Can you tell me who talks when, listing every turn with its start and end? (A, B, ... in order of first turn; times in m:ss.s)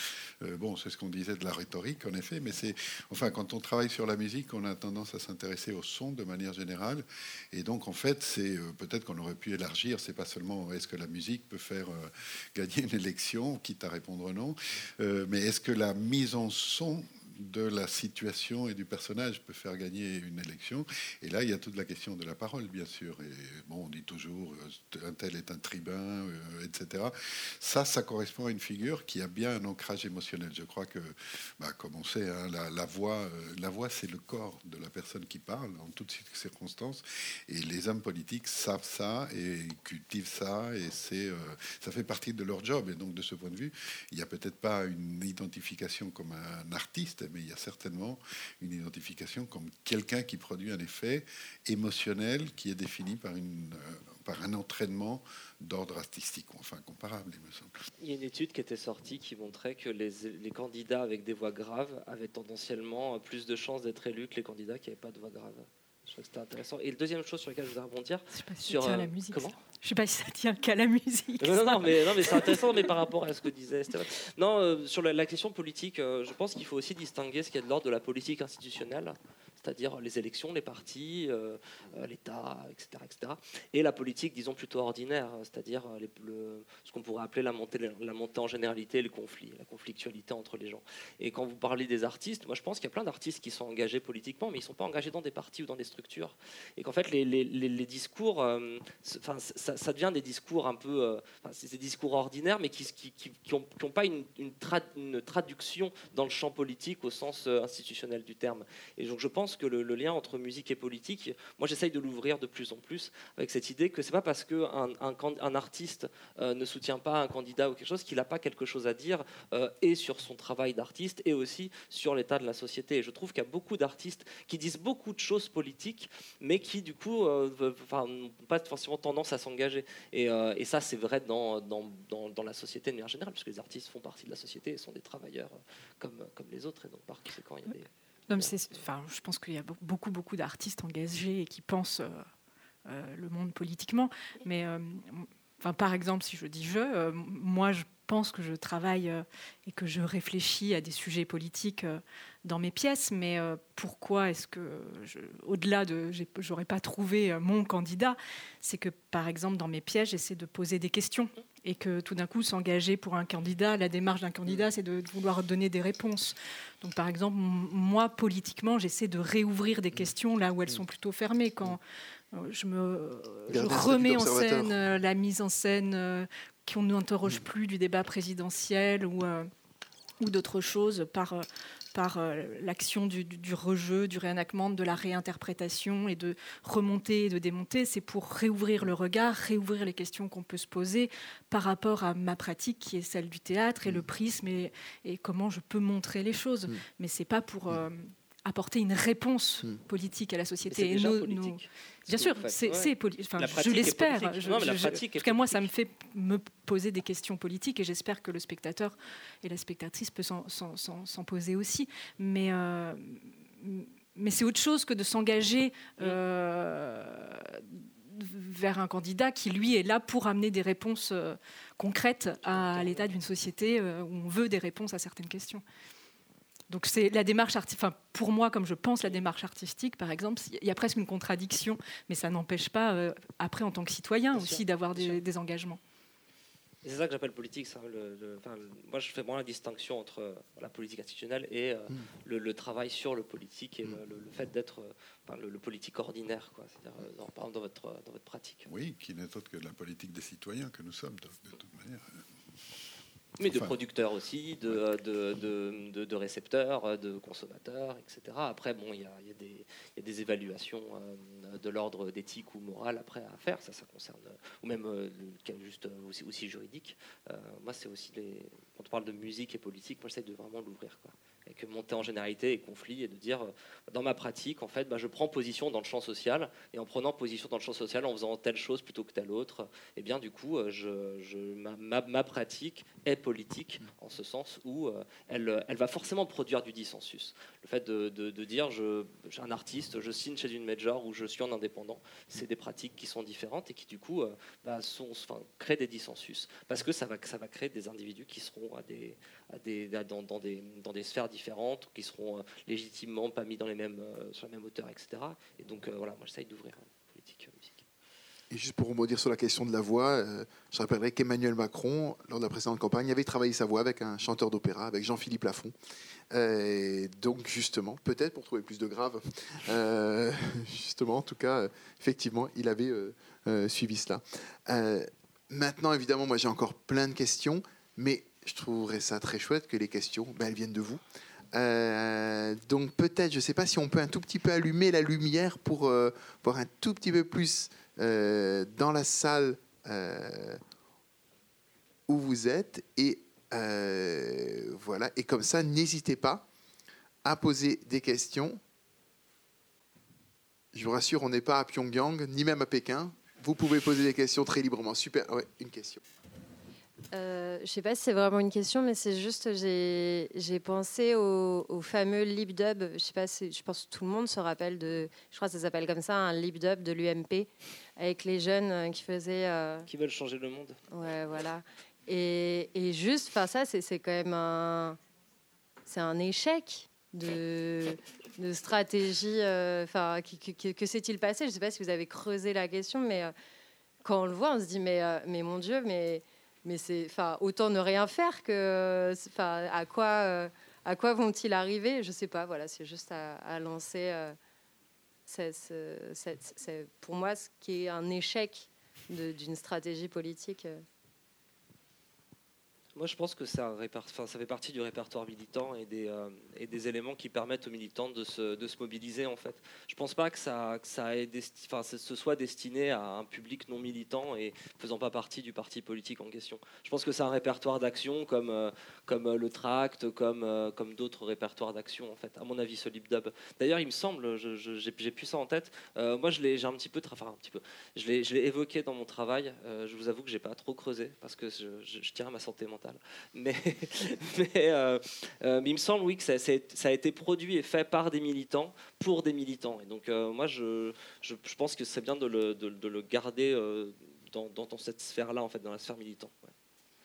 0:00.4-0:57.7 A
0:58.0-1:09.6 B
1:08.3-1:12.8 C
1:11.4-2:18.5 B
2:18.3-2:22.3 C
2:22.9-2:51.8 C
2:52.3-2:59.5 C
2:53.5-2:54.8 D
3:00.2-3:45.6 C
3:20.7-3:25.7 B
3:42.4-3:43.1 B
3:46.7-3:55.8 C
3:54.3-3:55.2 B
3:56.8-4:08.7 B
4:08.7-4:12.2 A
4:13.4-5:07.8 B
4:13.4-4:13.8 A
5:08.5-5:15.7 D
5:16.3-5:31.0 D
5:31.5-5:40.6 D
5:42.1-5:46.4 D
5:47.2-5:48.6 D
5:50.7-5:56.0 D
5:57.1-6:09.9 E
6:09.9-6:10.8 B
6:10.9-6:15.0 E
6:15.9-6:23.3 E
6:24.0-6:34.4 E
6:35.3-6:40.8 E
6:43.0-7:26.5 B